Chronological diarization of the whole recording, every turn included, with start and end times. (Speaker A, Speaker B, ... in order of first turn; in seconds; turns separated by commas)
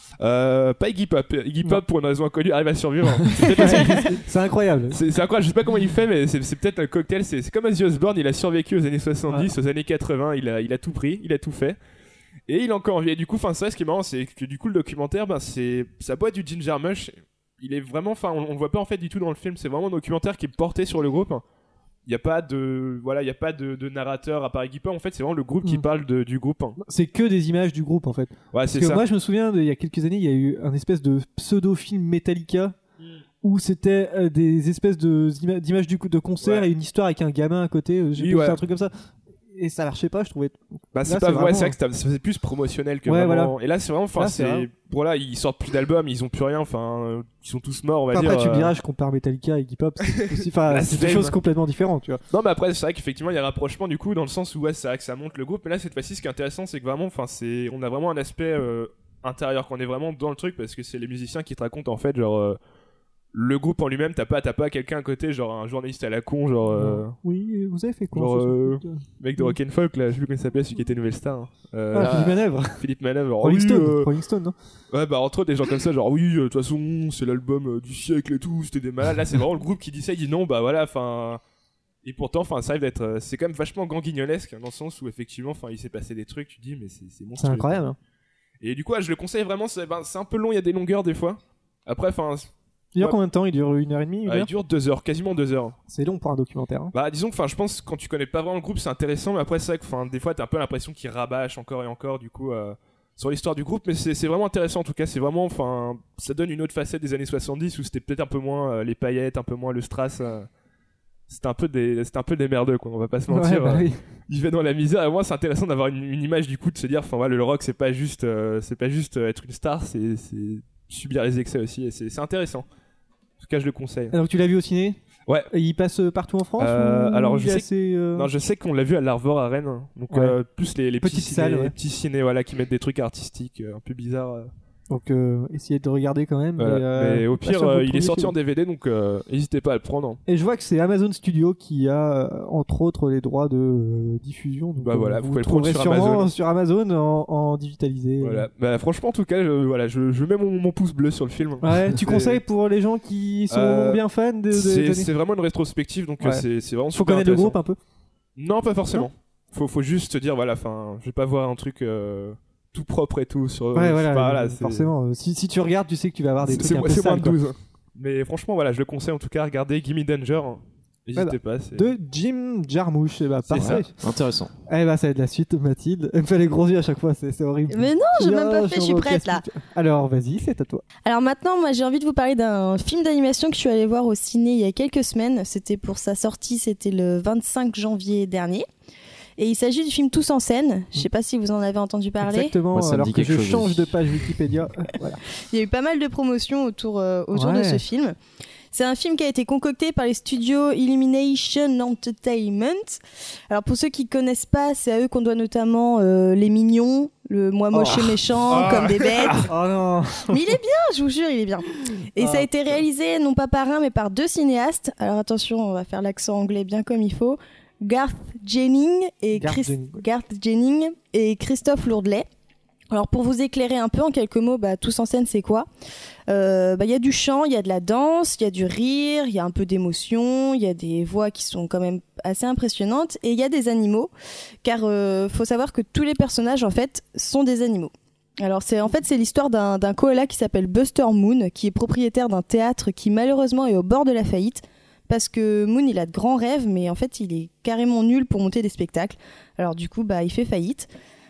Speaker A: 0.2-4.2, Speaker B: 3.6-5.0, Speaker A: 4.9-11.8, Speaker A: 12.5-21.4, Speaker A: 22.1-26.8, Speaker B: 26.8-32.7, Speaker A: 28.5-29.0, Speaker B: 33.4-38.9, Speaker A: 36.4-36.7, Speaker A: 38.2-38.6, Speaker B: 39.5-41.8, Speaker A: 40.9-48.7, Speaker B: 43.1-43.5, Speaker B: 44.2-44.7, Speaker B: 48.1-52.2, Speaker A: 50.0-51.4, Speaker A: 52.3-62.6, Speaker A: 63.3-67.1, Speaker B: 66.7-69.5, Speaker A: 68.1-74.1, Speaker B: 71.9-72.8, Speaker C: 72.0-72.3, Speaker B: 73.4-74.5, Speaker A: 74.9-81.4, Speaker A: 82.0-87.8, Speaker B: 87.4-88.0, Speaker A: 88.6-93.2, Speaker B: 92.9-94.5, Speaker A: 94.3-95.8, Speaker B: 95.9-96.9, Speaker A: 96.9-110.5, Speaker A: 111.3-122.7, Speaker B: 113.3-114.0, Speaker A: 123.4-124.1, Speaker B: 124.1-125.0, Speaker B: 125.5-128.3, Speaker A: 126.6-134.5, Speaker B: 130.1-130.4, Speaker B: 131.0-131.7, Speaker B: 134.9-138.3, Speaker A: 136.6-140.2, Speaker B: 140.3-148.5, Speaker A: 144.8-146.3, Speaker A: 148.2-152.4, Speaker B: 151.6-155.1, Speaker A: 153.5-157.6, Speaker B: 156.2-157.8, Speaker A: 158.4-164.9, Speaker B: 163.7-167.4, Speaker A: 166.4-171.9, Speaker B: 171.2-173.9, Speaker A: 173.5-173.9, Speaker C: 174.0-174.5, Speaker B: 174.7-180.8, Speaker D: 177.7-179.4, Speaker D: 181.0-188.7, Speaker D: 189.4-192.5, Speaker B: 192.2-195.2, Speaker C: 192.7-193.9, Speaker D: 195.3-198.2, Speaker B: 197.3-197.8, Speaker D: 198.7-209.5, Speaker B: 207.7-210.5, Speaker A: 208.6-209.5, Speaker D: 210.3-222.2, Speaker B: 212.2-212.5, Speaker B: 219.3-220.0, Speaker D: 222.9-225.7, Speaker D: 226.3-234.1, Speaker D: 234.6-250.9